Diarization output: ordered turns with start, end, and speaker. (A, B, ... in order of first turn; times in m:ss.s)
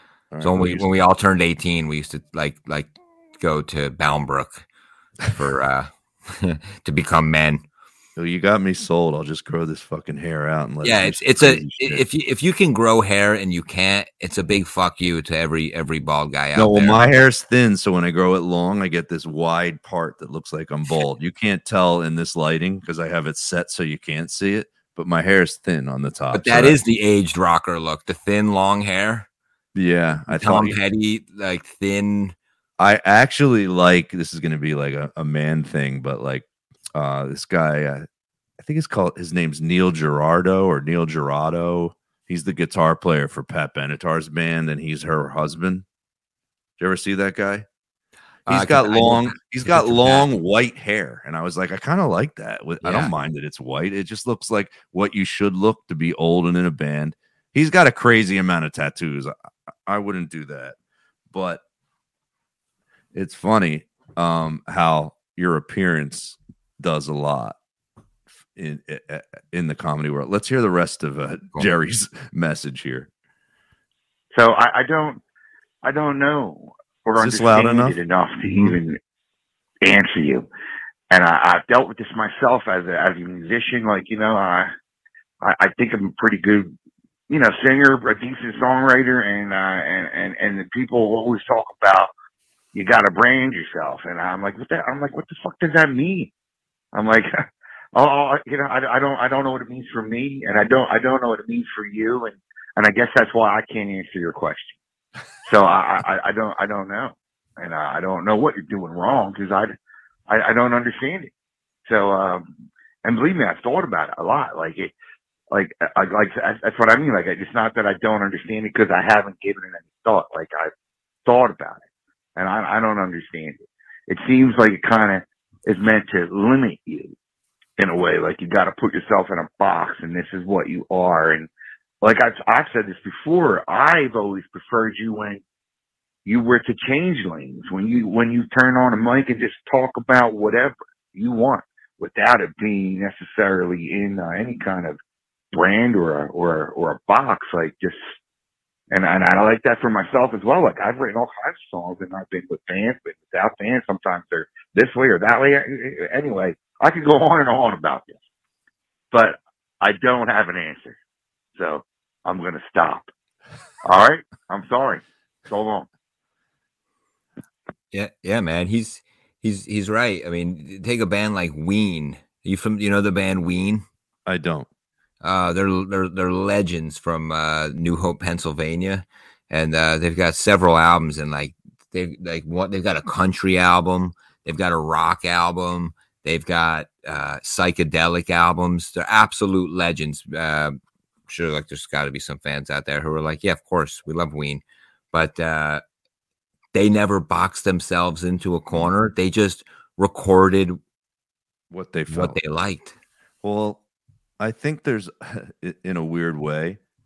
0:00.3-0:00.9 A
0:00.4-0:04.6 B
0:05.3-0:07.6 B
0:08.2-0:12.0 A
0:10.8-0:17.0 B
0:16.5-0:26.8 A
0:26.3-0:29.3 B
0:29.7-0:30.8 A
0:30.3-0:32.3 B
0:32.8-0:38.0 A
0:38.6-0:45.8 A
0:46.8-0:47.6 A
0:48.5-0:50.3 B
0:48.5-0:59.3 A
0:52.8-0:53.1 B
0:59.8-1:00.8 A
1:01.3-1:01.6 A
1:03.1-1:07.6 A
1:08.5-1:13.1 A
1:14.3-1:15.2 C
1:15.8-1:19.0 C
1:17.2-1:18.0 A
1:18.4-1:18.8 B
1:19.8-1:20.5 C
1:21.1-1:24.7 C
1:25.4-1:26.7 C
1:27.3-1:32.1 C
1:32.7-1:36.3 C
1:36.9-1:37.3 C
1:37.9-1:44.8 C
1:45.4-1:49.7 C
1:50.3-1:51.3 C
1:51.8-1:52.5 C
1:53.0-1:54.9 C
1:55.5-2:00.7 C
2:01.2-2:01.8 C
2:02.4-2:07.1 C
2:07.8-2:11.5 C
2:12.0-2:15.4 C
2:16.2-2:25.0 C
2:25.5-2:28.0 C
2:28.9-2:38.2 C
2:39.1-2:41.0 C
2:41.5-2:43.1 C
2:43.8-2:45.9 C
2:47.9-2:53.8 B
2:54.2-2:54.7 A
2:55.2-3:15.8 B
3:16.7-3:20.8 B
3:21.7-3:22.4 A
3:22.1-3:22.9 B
3:23.4-3:23.8 A
3:24.4-3:26.8 A